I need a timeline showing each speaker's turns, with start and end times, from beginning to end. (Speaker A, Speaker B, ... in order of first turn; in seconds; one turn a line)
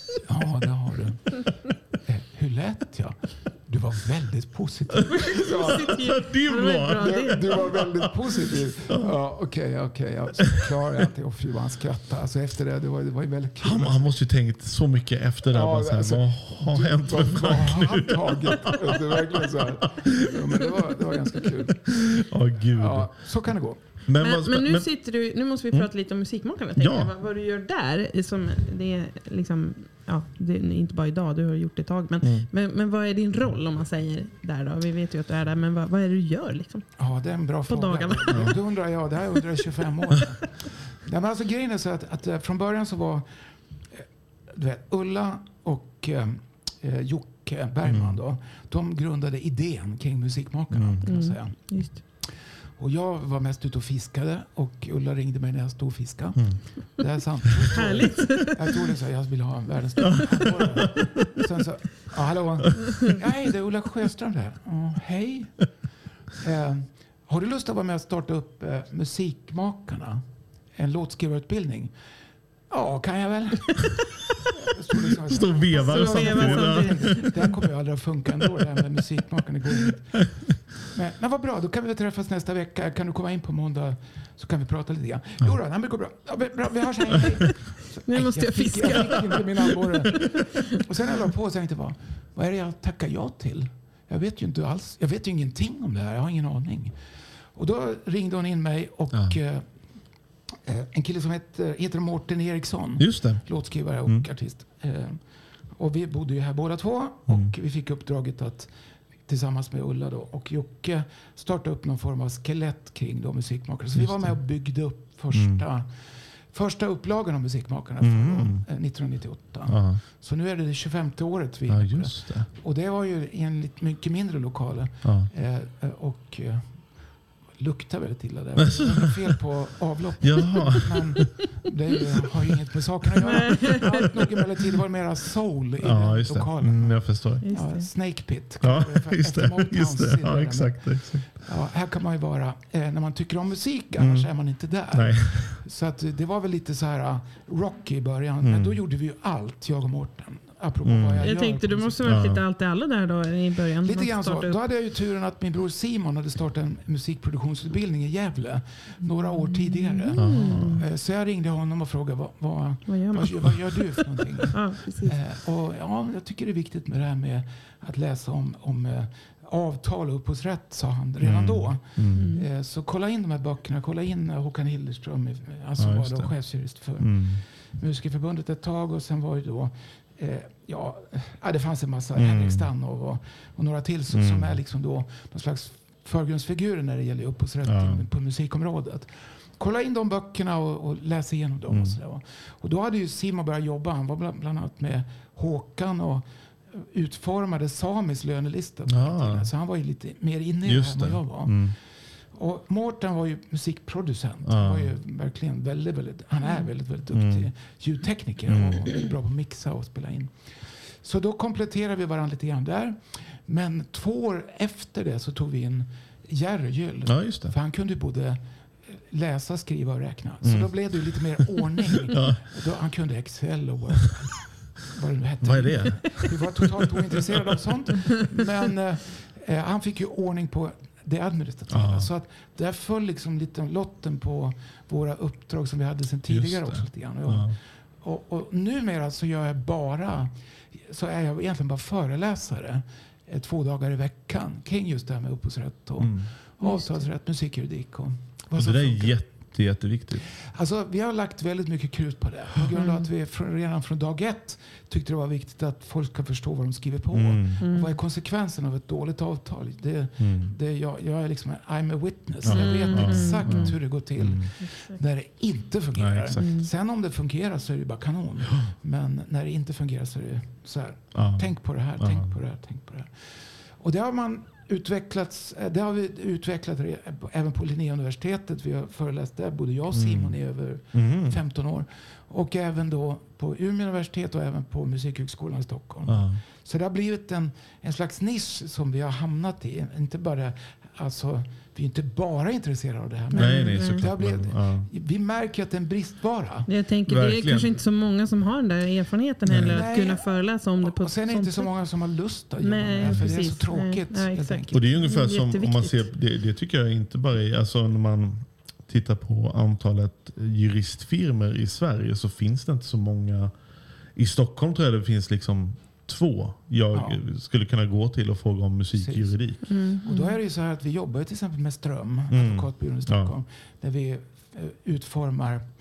Speaker A: 0.3-1.5
Speaker A: 2.0-5.9
Speaker B: 5.1-9.1
Speaker C: 5.2-7.7
Speaker A: 7.0-14.0
Speaker B: 13.6-20.7
Speaker A: 15.5-22.0
Speaker B: 21.9-23.4
Speaker A: 22.8-23.8
Speaker B: 24.1-24.9
Speaker C: 24.2-36.9
Speaker B: 26.8-27.1
Speaker B: 32.2-32.5
Speaker A: 37.0-65.7
Speaker C: 37.7-38.7
Speaker B: 47.8-48.2
Speaker B: 50.7-51.1
Speaker C: 51.1-52.0
Speaker B: 56.4-56.6
Speaker C: 57.7-58.8
Speaker B: 60.1-61.4
Speaker A: 66.4-70.2
Speaker A: 70.7-71.9
Speaker A: 72.7-74.0
Speaker A: 74.6-80.3
Speaker B: 75.3-77.5
Speaker C: 75.7-77.4
Speaker A: 80.9-97.0
Speaker C: 88.1-90.2
Speaker A: 97.5-99.7
Speaker B: 99.1-99.4
Speaker A: 100.6-105.2
Speaker B: 103.0-104.2
Speaker A: 105.7-108.7
Speaker B: 107.3-107.5
Speaker A: 109.3-126.9
Speaker B: 113.9-114.4
Speaker B: 115.3-115.6
Speaker B: 118.0-118.7
Speaker B: 119.7-120.0
Speaker B: 121.7-122.5
Speaker B: 125.0-125.3
Speaker A: 127.6-152.2
Speaker B: 128.6-129.1
Speaker B: 130.2-131.3
Speaker B: 133.2-134.1
Speaker C: 133.2-134.1
Speaker B: 135.8-137.4
Speaker C: 137.4-137.9
Speaker B: 138.6-141.4
Speaker B: 144.0-144.3
Speaker B: 144.9-145.6
Speaker B: 148.4-148.8
Speaker B: 150.8-151.3
Speaker C: 151.2-154.6
Speaker B: 152.0-152.4
Speaker A: 153.8-201.7
Speaker C: 159.0-160.8
Speaker B: 160.2-160.8
Speaker C: 162.9-165.2
Speaker B: 171.2-172.3
Speaker C: 172.1-172.5
Speaker B: 175.8-176.4
Speaker B: 177.0-177.4
Speaker B: 182.2-182.7
Speaker B: 184.1-184.6
Speaker B: 187.6-188.1
Speaker B: 191.7-192.0
Speaker B: 198.9-199.5
Speaker B: 200.7-201.8
Speaker A: 202.3-218.4
Speaker B: 204.4-204.9
Speaker C: 206.4-206.7
Speaker B: 207.1-207.5
Speaker B: 208.5-208.9
Speaker B: 217.1-217.5
Speaker A: 218.9-249.2
Speaker B: 220.4-222.6
Speaker B: 225.4-226.7
Speaker B: 227.2-227.7
Speaker B: 231.7-232.1
Speaker B: 236.3-237.6
Speaker B: 246.0-246.3
Speaker C: 246.6-247.1
Speaker B: 248.6-250.3
Speaker A: 250.4-296.7
Speaker C: 252.8-253.1
Speaker B: 257.1-257.6
Speaker C: 257.6-258.0
Speaker B: 260.2-260.5
Speaker B: 262.4-264.5
Speaker C: 262.5-263.9
Speaker C: 264.6-265.0
Speaker B: 266.0-266.6
Speaker C: 266.4-266.7
Speaker B: 271.1-272.4
Speaker B: 279.9-280.4
Speaker B: 280.9-281.4
Speaker B: 286.1-286.4
Speaker C: 293.3-294.0
Speaker B: 293.3-294.9
Speaker C: 296.7-301.7
Speaker B: 297.1-297.7
Speaker B: 299.5-299.9
Speaker A: 299.7-300.3
Speaker A: 300.8-304.9
Speaker C: 302.6-306.1
Speaker B: 303.0-303.4
Speaker B: 304.7-313.5
Speaker B: 314.1-319.6
Speaker A: 316.9-317.2
Speaker A: 318.9-325.6
Speaker C: 319.7-320.4
Speaker B: 322.3-323.3